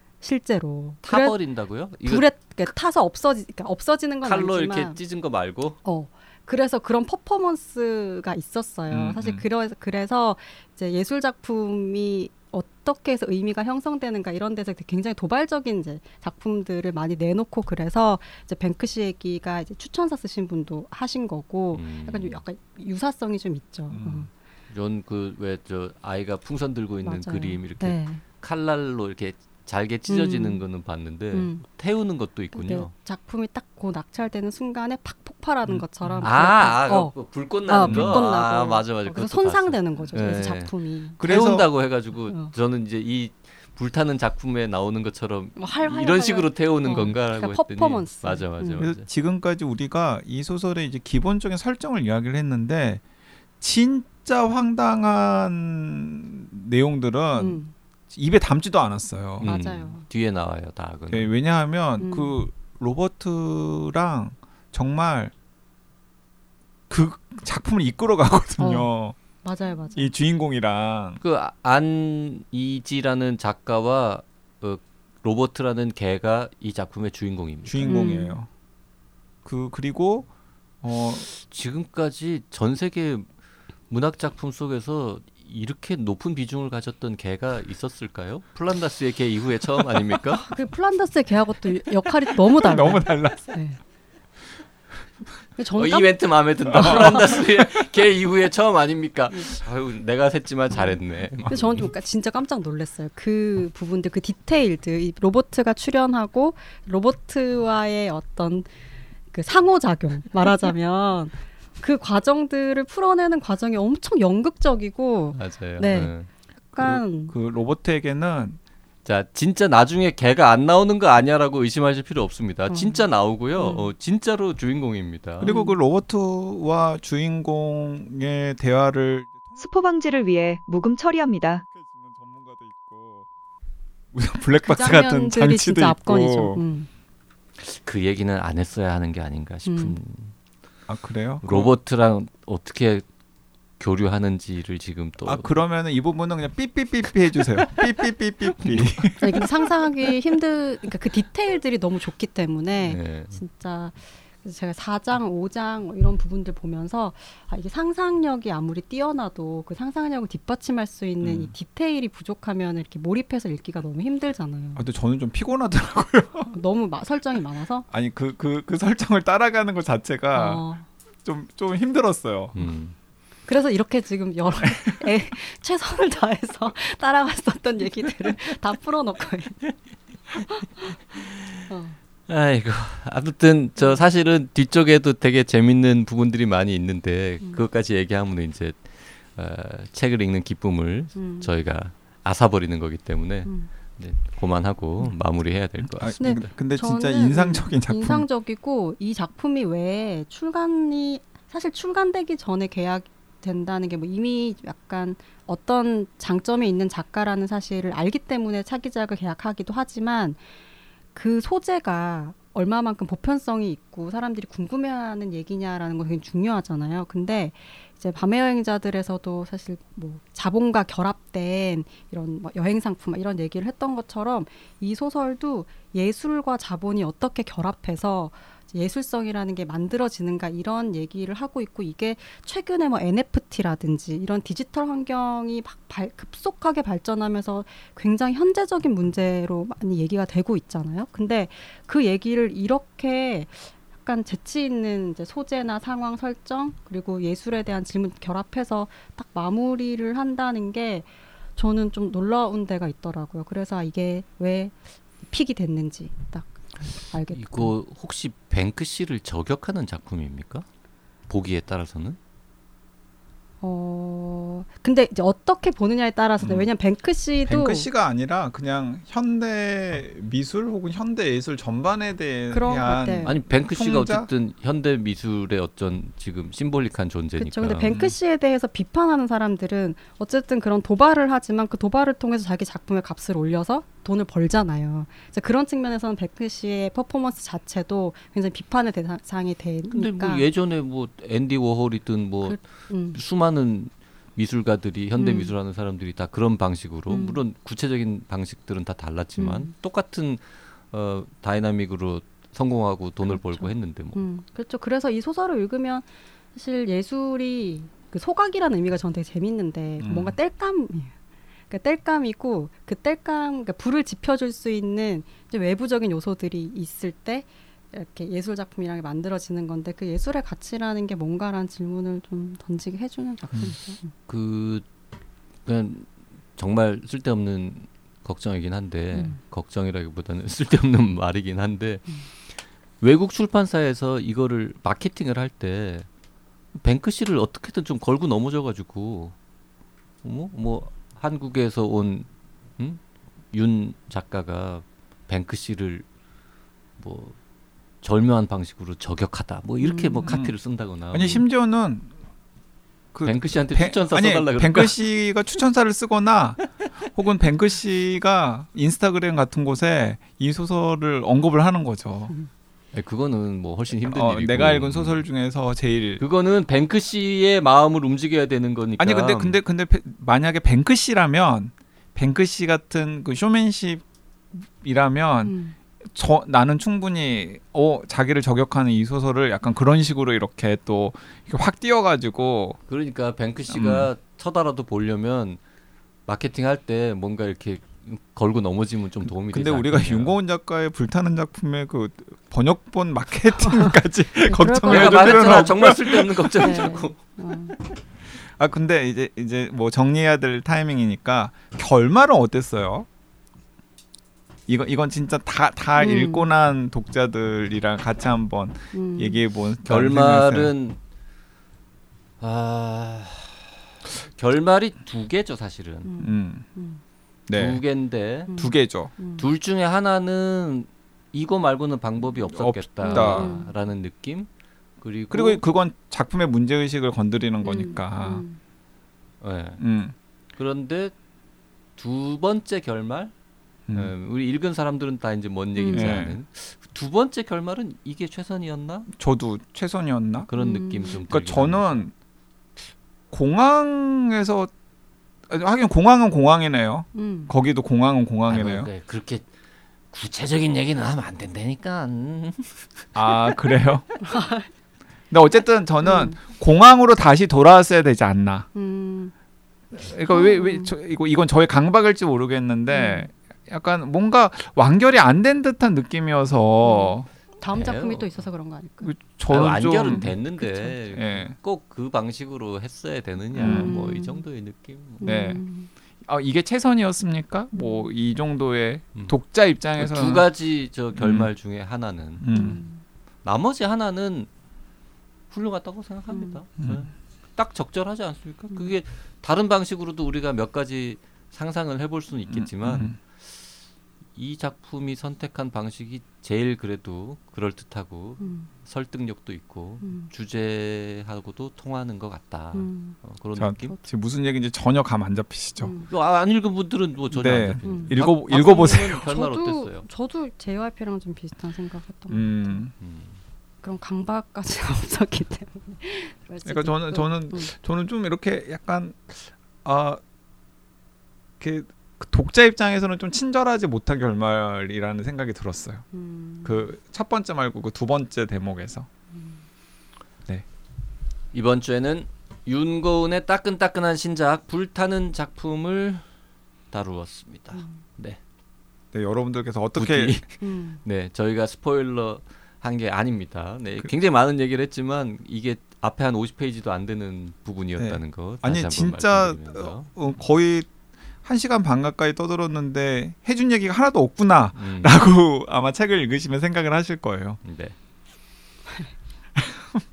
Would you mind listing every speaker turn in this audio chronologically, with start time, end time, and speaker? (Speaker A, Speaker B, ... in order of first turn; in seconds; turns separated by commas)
Speaker A: 0.2-1.4, Speaker B: 1.0-2.3, Speaker A: 1.9-5.0, Speaker B: 4.2-5.8, Speaker A: 5.8-24.3, Speaker C: 8.9-9.4, Speaker B: 21.7-22.4, Speaker C: 23.9-24.3, Speaker B: 24.7-32.9, Speaker A: 27.0-28.2, Speaker A: 30.1-30.6, Speaker A: 31.3-31.6, Speaker A: 32.5-41.2, Speaker C: 35.7-36.3, Speaker B: 36.2-49.0, Speaker C: 37.8-38.2, Speaker C: 41.2-41.7, Speaker A: 42.3-42.5, Speaker A: 45.6-48.9, Speaker C: 48.8-53.0, Speaker C: 53.6-59.5, Speaker A: 57.4-57.7, Speaker B: 59.4-61.3, Speaker A: 59.4-60.0, Speaker C: 61.1-65.3, Speaker A: 62.0-62.4, Speaker C: 66.9-69.2, Speaker A: 68.6-68.9, Speaker A: 69.4-70.1, Speaker C: 70.0-71.2, Speaker B: 71.2-78.1, Speaker C: 77.7-78.5, Speaker A: 77.8-78.4, Speaker C: 79.4-80.3, Speaker C: 80.8-81.3, Speaker B: 81.3-83.3, Speaker B: 83.9-90.5, Speaker A: 90.4-93.8, Speaker C: 92.6-93.5, Speaker A: 95.6-96.2, Speaker B: 95.8-101.7, Speaker A: 96.7-97.4, Speaker C: 96.7-97.4, Speaker A: 101.5-108.7, Speaker A: 109.3-116.1, Speaker B: 115.3-116.3, Speaker A: 116.7-117.3, Speaker C: 116.8-118.6, Speaker B: 119.0-125.5, Speaker A: 122.7-123.9, Speaker C: 125.4-129.6, Speaker A: 125.4-125.8, Speaker D: 129.6-131.6, Speaker C: 131.7-133.3, Speaker C: 134.1-136.6, Speaker A: 134.6-136.9, Speaker B: 137.6-140.3, Speaker A: 139.7-139.9, Speaker C: 140.9-141.7, Speaker B: 141.4-143.1, Speaker B: 143.8-145.6, Speaker C: 145.2-149.6, Speaker A: 149.2-164.9, Speaker B: 152.9-153.4, Speaker C: 161.2-161.5, Speaker C: 164.8-166.5, Speaker A: 166.5-167.9, Speaker C: 167.9-170.6, Speaker A: 170.3-170.9, Speaker C: 171.2-172.7, Speaker B: 172.6-172.9, Speaker A: 173.5-179.7, Speaker A: 181.7-182.0, Speaker B: 182.3-196.2, Speaker A: 183.8-184.0, Speaker A: 191.1-191.5, Speaker C: 195.9-198.3, Speaker A: 196.2-210.4, Speaker A: 211.1-257.7, Speaker B: 257.3-260.7, Speaker B: 261.3-262.2, Speaker A: 263.6-267.9, Speaker C: 266.4-266.7, Speaker C: 267.4-274.3, Speaker A: 272.5-273.4, Speaker B: 273.2-278.0, Speaker A: 277.4-290.5, Speaker C: 277.9-278.1, Speaker B: 289.9-292.6, Speaker A: 292.4-293.2, Speaker B: 293.1-304.2, Speaker A: 295.2-295.5, Speaker A: 297.1-297.4, Speaker A: 299.4-299.7, Speaker A: 303.3-311.1, Speaker C: 310.0-310.4, Speaker A: 311.7-324.1, Speaker B: 324.3-324.9, Speaker B: 325.7-336.1, Speaker A: 329.1-329.4, Speaker B: 336.7-339.3, Speaker B: 340.2-343.0, Speaker B: 343.5-346.1, Speaker B: 347.0-347.4, Speaker B: 348.0-351.4, Speaker A: 349.8-350.3, Speaker C: 350.3-350.5, Speaker C: 351.1-352.1, Speaker C: 353.1-362.3, Speaker B: 353.2-355.0, Speaker B: 362.9-365.2, Speaker C: 364.0-366.2, Speaker B: 366.2-369.6, Speaker C: 369.0-382.8, Speaker A: 375.4-375.7, Speaker B: 382.9-385.6, Speaker C: 383.7-384.1, Speaker B: 386.3-390.4, Speaker C: 389.5-396.5, Speaker A: 393.6-395.9, Speaker B: 394.8-397.2, Speaker A: 396.6-397.8, Speaker C: 398.5-403.1, Speaker C: 404.7-410.7, Speaker A: 406.0-406.5, Speaker A: 408.9-409.4, Speaker B: 409.8-411.0, Speaker B: 412.4-416.1, Speaker A: 416.1-417.0, Speaker C: 416.2-416.7, Speaker C: 417.5-417.8, Speaker B: 417.5-418.5, Speaker A: 418.5-419.4, Speaker C: 418.5-419.1, Speaker B: 419.4-424.5, Speaker C: 422.4-423.6, Speaker A: 423.0-423.7, Speaker B: 425.0-425.6, Speaker C: 425.3-428.4, Speaker A: 427.6-428.6, Speaker B: 429.4-429.8, Speaker C: 429.8-430.1, Speaker B: 430.6-431.1, Speaker B: 432.0-433.3, Speaker B: 433.9-439.1, Speaker A: 435.8-436.2, Speaker C: 435.9-436.4, Speaker C: 439.1-440.5, Speaker B: 440.5-442.0, Speaker A: 440.6-441.2, Speaker C: 441.3-442.1, Speaker C: 443.3-444.7, Speaker C: 445.5-448.9, Speaker A: 447.1-447.5, Speaker B: 448.5-449.5, Speaker B: 450.1-453.1, Speaker C: 453.1-454.1, Speaker A: 454.2-454.7, Speaker C: 455.3-458.7, Speaker A: 456.0-456.4, Speaker A: 458.7-459.3, Speaker C: 459.9-467.3, Speaker A: 460.3-460.9, Speaker A: 462.9-463.3, Speaker A: 466.8-469.1, Speaker B: 467.7-468.4, Speaker C: 469.0-470.3, Speaker B: 469.5-475.3, Speaker A: 470.1-471.0, Speaker C: 471.1-471.6, Speaker C: 473.6-473.9, Speaker A: 473.6-474.4, Speaker A: 475.2-475.9, Speaker C: 475.2-475.6, Speaker C: 476.2-480.4, Speaker A: 477.7-478.1, Speaker B: 480.0-482.5, Speaker C: 481.2-481.5, Speaker C: 482.4-482.8, Speaker A: 482.5-483.0, Speaker B: 483.4-484.5, Speaker B: 485.5-493.2, Speaker A: 486.3-486.6, Speaker C: 492.5-493.1, Speaker B: 494.3-503.9, Speaker A: 498.4-498.7, Speaker A: 500.0-500.3, Speaker A: 502.7-503.2, Speaker C: 503.6-505.9, Speaker A: 505.8-506.1, Speaker B: 506.1-510.1, Speaker C: 507.3-509.3, Speaker A: 507.8-512.8, Speaker C: 512.3-512.9, Speaker B: 513.0-513.4, Speaker A: 513.8-517.7, Speaker C: 516.6-520.2, Speaker C: 521.6-526.0, Speaker A: 526.1-526.9, Speaker C: 526.6-529.1, Speaker A: 529.3-529.6, Speaker B: 531.5-536.3, Speaker B: 536.9-538.4, Speaker C: 539.1-540.4, Speaker B: 540.0-550.1, Speaker A: 540.6-541.0, Speaker C: 548.0-550.9, Speaker C: 551.4-557.6, Speaker B: 554.8-555.2, Speaker B: 557.6-558.0, Speaker C: 559.6-560.0